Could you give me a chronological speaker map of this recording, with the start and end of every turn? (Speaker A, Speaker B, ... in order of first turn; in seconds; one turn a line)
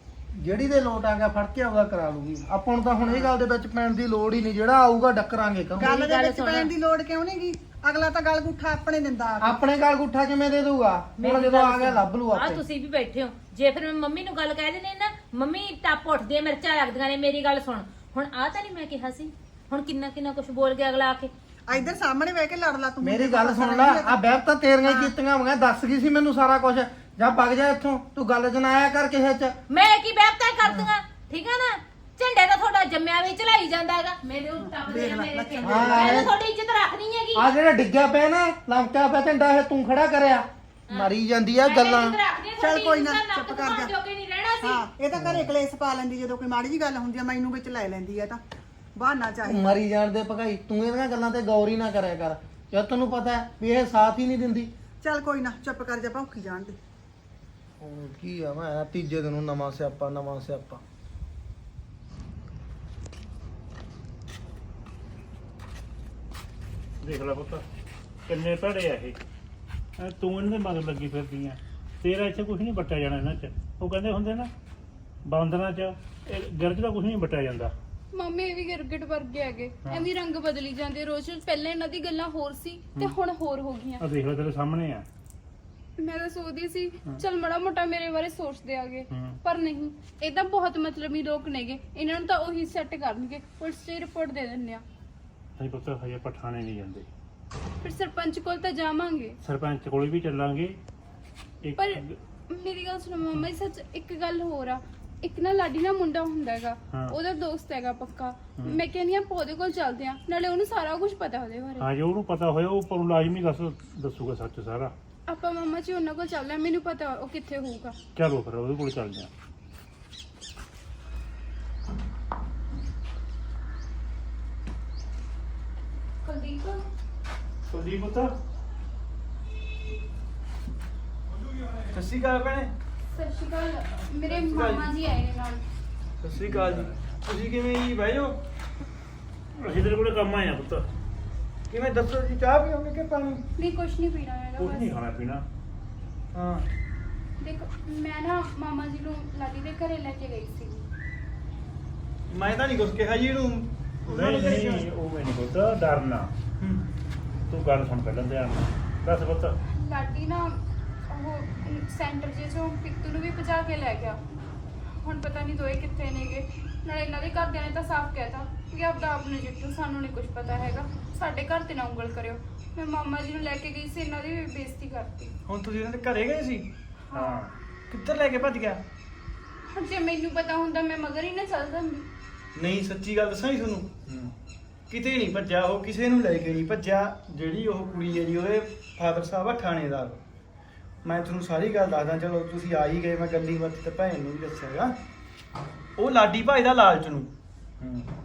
Speaker A: 0.3-5.9
Speaker B: 3.0-3.3
Speaker B: 5.8-9.5
Speaker C: 5.8-6.7
Speaker A: 9.4-12.6
Speaker C: 11.2-21.3
Speaker B: 21.7-24.1
Speaker A: 23.0-29.5
Speaker B: 24.8-25.1
Speaker C: 29.7-37.5
Speaker B: 34.6-36.3
Speaker A: 35.6-36.3
Speaker A: 37.3-42.1
Speaker C: 41.6-44.8
Speaker B: 42.6-43.9
Speaker B: 44.6-48.4
Speaker A: 45.1-45.5
Speaker B: 49.0-49.8
Speaker A: 49.4-54.7
Speaker B: 55.0-56.8
Speaker A: 57.8-60.8
Speaker D: 67.0-67.6
Speaker D: 68.3-69.2
Speaker D: 70.0-74.5
Speaker D: 75.2-77.7
Speaker E: 78.1-84.0
Speaker D: 84.0-85.0
Speaker E: 86.0-94.8
Speaker D: 89.1-89.4
Speaker D: 95.6-97.1
Speaker E: 97.8-99.4
Speaker D: 99.4-100.8
Speaker D: 101.6-102.2
Speaker E: 101.8-111.9
Speaker D: 106.9-107.2
Speaker D: 111.8-114.9
Speaker E: 115.3-118.0
Speaker D: 118.2-119.3
Speaker E: 126.2-126.8
Speaker D: 127.7-128.3
Speaker F: 131.9-132.7
Speaker E: 133.1-135.6
Speaker F: 134.3-134.9
Speaker F: 136.2-138.4
Speaker D: 136.4-136.9
Speaker D: 139.6-140.8
Speaker F: 141.7-143.4
Speaker E: 143.6-144.9
Speaker D: 144.6-145.4
Speaker F: 146.3-146.7
Speaker E: 147.4-150.9
Speaker F: 152.3-154.8
Speaker D: 154.1-156.3
Speaker D: 157.5-159.6
Speaker E: 159.7-164.2
Speaker E: 165.0-175.3
Speaker F: 175.5-176.7
Speaker E: 177.1-177.4
Speaker D: 177.1-177.5
Speaker F: 177.9-178.8
Speaker E: 179.7-182.1
Speaker F: 182.6-183.9
Speaker D: 184.1-184.3
Speaker F: 184.9-190.2
Speaker F: 191.0-194.9
Speaker F: 196.0-197.3
Speaker D: 197.8-198.1